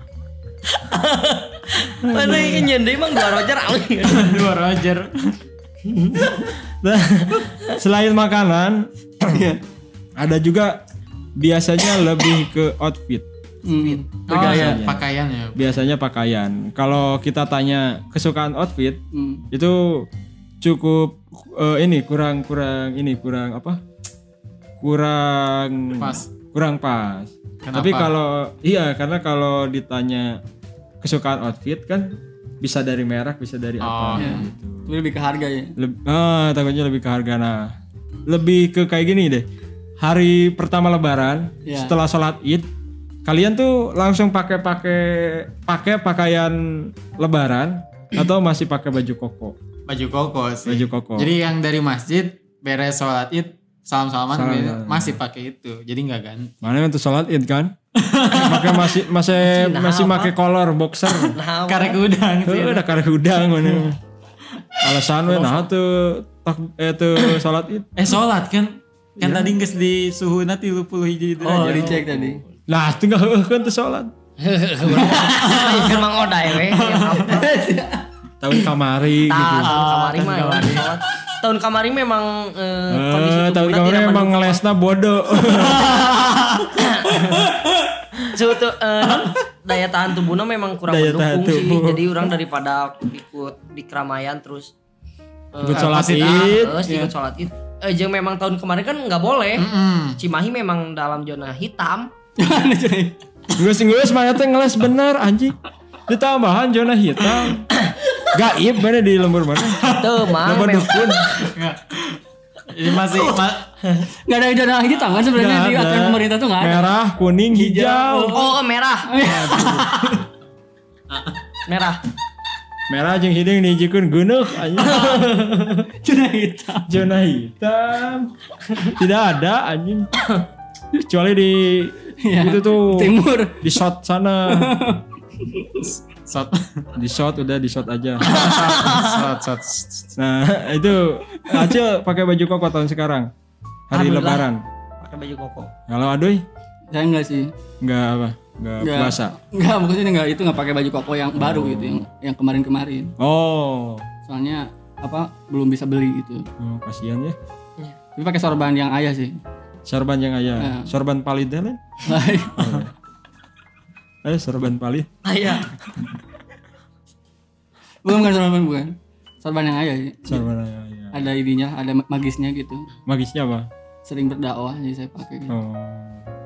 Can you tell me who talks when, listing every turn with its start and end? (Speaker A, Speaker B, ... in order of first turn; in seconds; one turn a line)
Speaker A: 0.7-4.5
Speaker B: 2.0-2.7
Speaker C: 4.0-5.3
Speaker A: 5.8-6.5
Speaker B: 6.7-9.4
Speaker D: 9.3-9.6
Speaker B: 10.2-10.8
Speaker B: 11.4-13.2
Speaker D: 13.6-14.8
Speaker A: 13.8-14.0
Speaker C: 14.3-15.7
Speaker B: 14.3-19.0
Speaker D: 19.1-19.4
Speaker B: 19.5-20.1
Speaker B: 20.6-23.8
Speaker B: 24.8-30.4
Speaker C: 26.0-26.3
Speaker C: 27.6-28.1
Speaker B: 31.0-34.9
Speaker C: 33.8-34.6
Speaker D: 34.1-35.7
Speaker B: 35.8-37.7
Speaker B: 38.3-39.5
Speaker B: 40.0-42.7
Speaker D: 41.6-41.9
Speaker B: 43.2-49.5
Speaker C: 49.9-56.6
Speaker B: 50.6-51.3
Speaker B: 54.3-55.2
Speaker B: 56.6-57.7
Speaker C: 58.0-59.0
Speaker B: 58.3-61.4
Speaker A: 59.4-60.3
Speaker A: 61.3-62.0
Speaker C: 61.7-62.8
Speaker B: 62.5-64.0
Speaker B: 64.8-67.9
Speaker C: 68.0-72.0
Speaker B: 69.2-69.5
Speaker A: 71.4-72.4
Speaker D: 71.4-72.4
Speaker B: 72.7-74.1
Speaker A: 74.4-77.7
Speaker C: 75.1-77.4
Speaker D: 77.3-78.0
Speaker B: 78.4-79.7
Speaker A: 79.2-84.6
Speaker C: 79.5-80.9
Speaker B: 82.9-85.9
Speaker C: 85.8-86.7
Speaker A: 86.8-87.5
Speaker A: 88.2-94.7
Speaker B: 90.9-92.2
Speaker A: 95.5-102.1
Speaker B: 95.6-96.8
Speaker C: 95.7-96.7
Speaker D: 96.8-97.1
Speaker C: 99.6-100.2
Speaker D: 102.4-103.1
Speaker B: 103.6-105.5
Speaker B: 106.1-107.7
Speaker B: 108.3-111.5
Speaker A: 109.8-111.5
Speaker C: 111.4-113.7
Speaker D: 114.2-116.9
Speaker B: 115.3-118.4
Speaker D: 117.5-120.1
Speaker A: 118.3-119.2
Speaker B: 119.2-119.9
Speaker A: 121.7-122.0
Speaker B: 122.9-125.0
Speaker A: 124.8-125.9
Speaker D: 126.0-127.0
Speaker B: 126.9-128.3
Speaker B: 128.8-130.3
Speaker B: 131.0-134.8
Speaker D: 132.2-133.8
Speaker D: 134.5-135.9
Speaker C: 135.9-136.9
Speaker B: 136.9-138.3
Speaker C: 138.2-140.1
Speaker A: 138.3-139.2
Speaker B: 140.2-143.3
Speaker B: 143.9-144.6
Speaker A: 143.9-144.5
Speaker A: 145.0-145.7
Speaker B: 145.9-146.4
Speaker D: 146.9-147.5
Speaker B: 147.8-149.3
Speaker D: 148.8-153.1
Speaker B: 151.4-152.0
Speaker B: 153.2-154.1
Speaker D: 154.2-156.4
Speaker B: 156.6-157.3
Speaker D: 158.2-159.4
Speaker B: 159.8-161.8
Speaker D: 160.6-160.9
Speaker D: 162.0-162.8
Speaker B: 162.5-162.9
Speaker B: 164.2-165.1
Speaker A: 165.2-165.7
Speaker D: 168.0-170.4
Speaker B: 170.3-171.2
Speaker D: 171.1-172.9
Speaker B: 173.1-173.7
Speaker D: 174.0-175.5
Speaker B: 175.5-176.2